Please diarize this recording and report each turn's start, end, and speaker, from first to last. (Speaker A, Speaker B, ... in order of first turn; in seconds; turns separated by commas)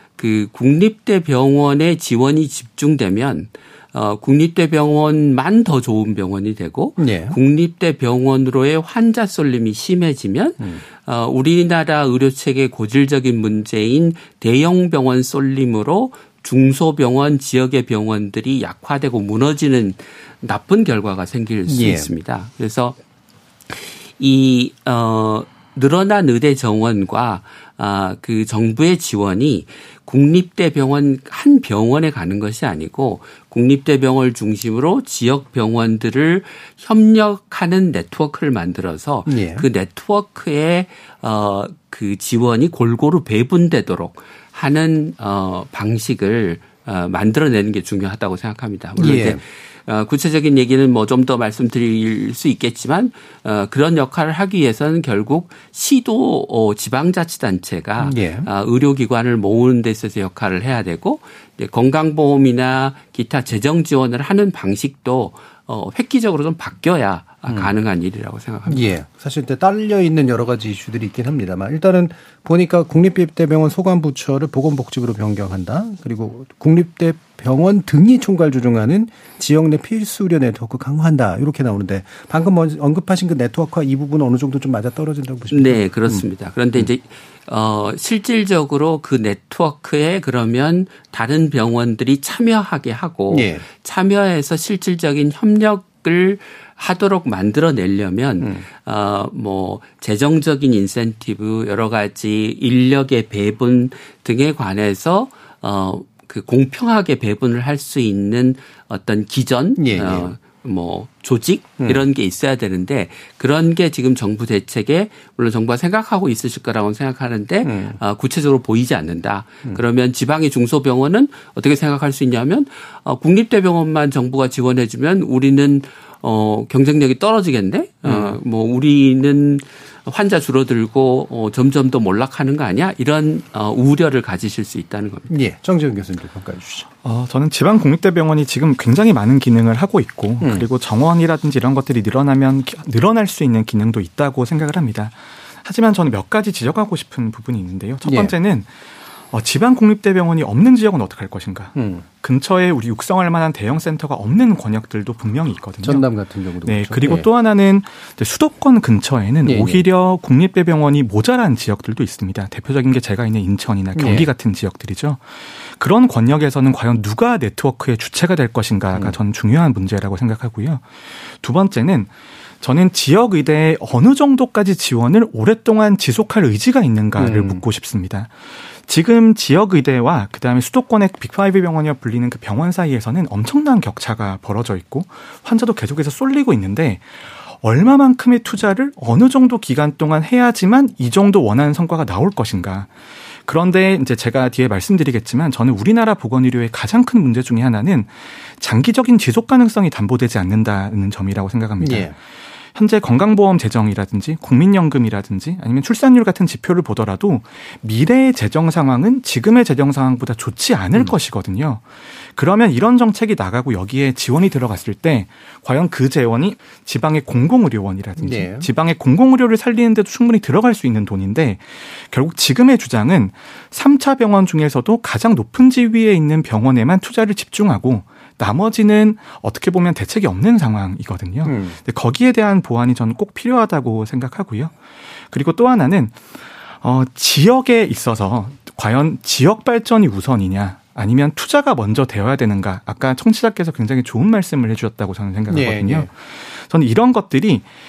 Speaker A: 0.2-23.0, Speaker B: 7.0-7.3, Speaker B: 21.7-22.1, Speaker A: 23.7-68.9, Speaker B: 39.3-39.6, Speaker B: 49.0-49.4, Speaker B: 58.0-58.5, Speaker B: 68.7-86.2, Speaker A: 85.5-135.3, Speaker B: 93.3-93.7, Speaker B: 109.8-110.3, Speaker B: 117.6-118.0, Speaker B: 128.0-128.3, Speaker B: 135.3-136.9, Speaker C: 137.0-148.7, Speaker B: 140.4-140.7, Speaker B: 148.0-148.3, Speaker C: 149.3-156.1, Speaker B: 151.8-152.0, Speaker B: 155.8-157.2, Speaker C: 156.6-172.1, Speaker B: 159.4-159.8, Speaker B: 163.9-164.3, Speaker C: 172.6-178.3, Speaker B: 177.2-177.6, Speaker C: 178.8-192.9, Speaker C: 193.4-202.1, Speaker B: 201.8-202.1, Speaker C: 202.7-234.7, Speaker B: 218.2-218.7, Speaker B: 231.4-231.8, Speaker C: 235.3-236.2, Speaker C: 236.8-247.6, Speaker B: 245.5-246.1